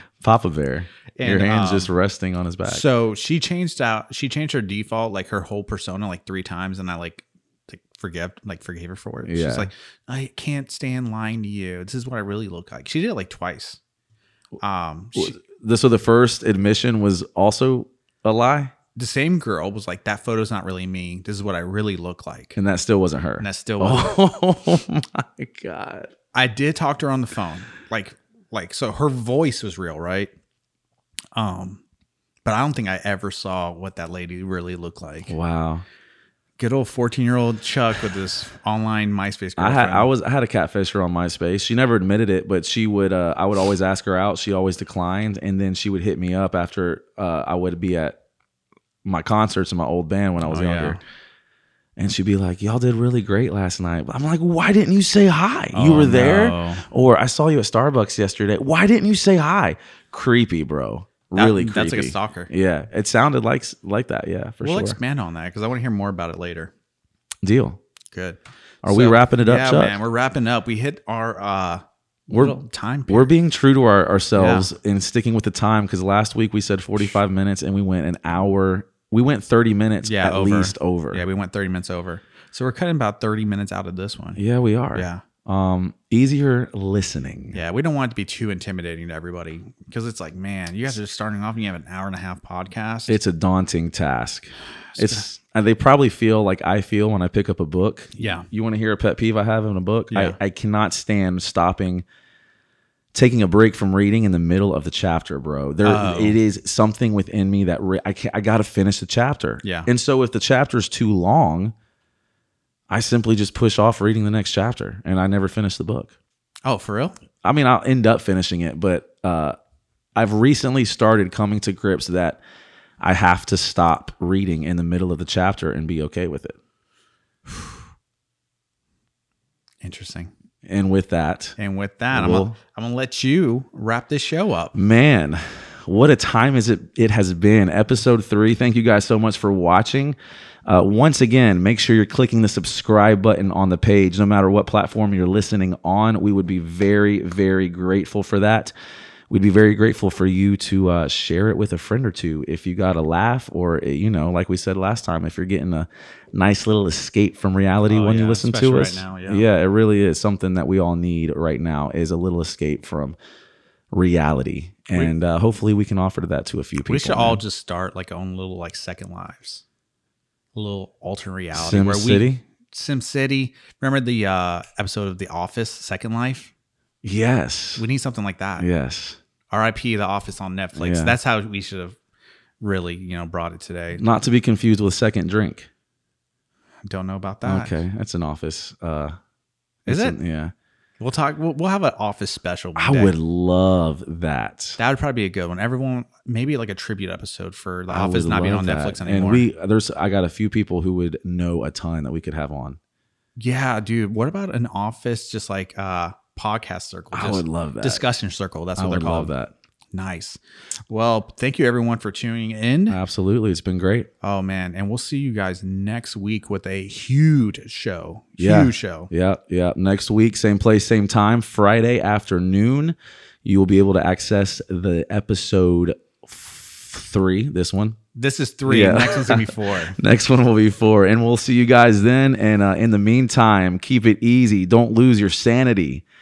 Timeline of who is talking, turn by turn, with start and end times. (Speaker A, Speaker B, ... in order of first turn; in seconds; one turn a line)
Speaker A: 0.2-2.9
Speaker B: 1.2-1.9
Speaker B: 2.6-13.8
Speaker A: 9.2-9.7
Speaker B: 14.6-15.4
Speaker A: 15.2-18.7
Speaker B: 18.9-22.6
Speaker A: 22.6-26.1
Speaker B: 23.4-24.2
Speaker B: 26.3-30.3
Speaker B: 31.4-31.8
Speaker B: 32.5-35.4
Speaker A: 35.3-35.8
Speaker B: 36.6-40.1
Speaker A: 39.6-48.2
Speaker A: 49.0-51.0
Speaker B: 50.4-51.0
Speaker A: 52.0-65.0
Speaker B: 55.7-56.9
Speaker B: 61.4-62.5
Speaker B: 64.6-66.7
Speaker A: 67.4-67.8
Speaker B: 68.1-73.3
Speaker A: 68.8-70.0
Speaker A: 72.3-81.2
Speaker B: 74.3-74.7
Speaker B: 80.0-84.4
Speaker A: 84.4-87.6
Speaker B: 84.9-85.2
Speaker B: 87.5-93.2
Speaker A: 93.1-102.0
Speaker B: 94.9-95.3
Speaker B: 98.2-98.5
Speaker B: 100.1-100.4
Speaker A: 103.1-111.7
Speaker B: 105.8-106.4
Speaker B: 109.6-109.9
Speaker A: 112.9-116.1
Speaker B: 116.7-117.2
Speaker A: 117.4-119.6
Speaker A: 120.2-122.4
Speaker A: 123.0-126.6
Speaker B: 127.5-127.8
Speaker B: 129.8-130.3
Speaker A: 130.7-131.6
Speaker B: 131.6-134.7
Speaker A: 132.1-132.6
Speaker A: 134.7-148.7
Speaker A: 149.3-163.2
Speaker B: 157.9-159.5
Speaker A: 163.9-167.4
Speaker B: 166.8-169.6
Speaker B: 170.6-176.5
Speaker A: 171.5-172.4
Speaker A: 177.0-177.9
Speaker B: 177.8-178.7
Speaker A: 178.6-179.2
Speaker B: 179.5-182.0
Speaker A: 180.8-181.2
Speaker B: 182.6-184.0
Speaker A: 184.0-185.7
Speaker B: 186.9-187.8
Speaker A: 187.5-189.2
Speaker B: 189.9-190.2
Speaker A: 189.9-190.5
Speaker B: 191.0-193.1
Speaker A: 192.8-194.8
Speaker B: 194.8-199.5
Speaker A: 197.9-202.8
Speaker B: 203.4-209.3
Speaker A: 207.1-208.1
Speaker A: 208.8-209.5
Speaker B: 209.9-210.4
Speaker B: 210.9-213.0
Speaker A: 212.9-214.1
Speaker B: 214.2-219.1
Speaker A: 218.4-228.0
Speaker B: 228.2-230.0
Speaker A: 228.7-236.0